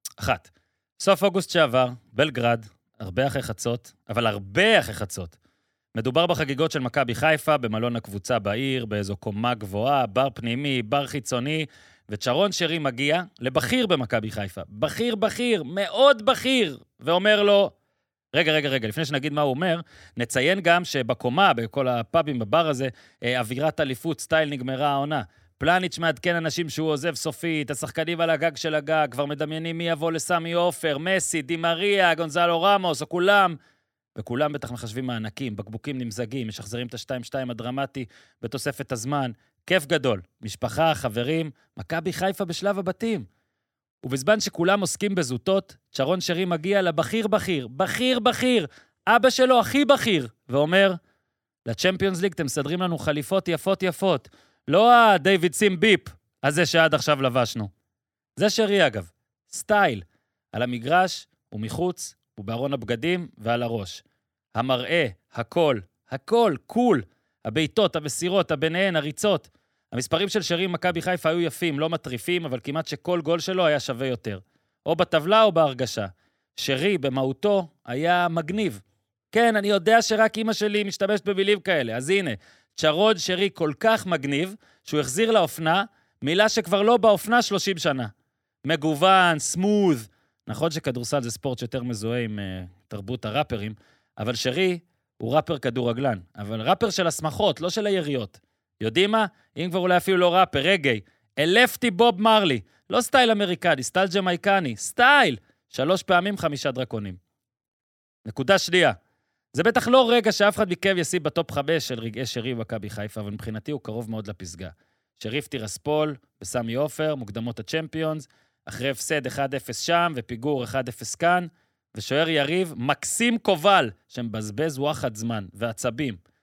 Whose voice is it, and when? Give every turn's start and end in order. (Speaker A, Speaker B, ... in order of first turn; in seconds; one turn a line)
Speaker A: 0.2-0.5
Speaker A: 1.0-5.3
Speaker A: 6.0-17.7
Speaker A: 18.3-33.6
Speaker A: 34.2-43.3
Speaker A: 44.0-51.0
Speaker A: 51.7-57.7
Speaker A: 58.4-64.0
Speaker A: 64.5-88.1
Speaker A: 88.6-107.2
Speaker A: 108.2-109.0
Speaker A: 109.5-126.2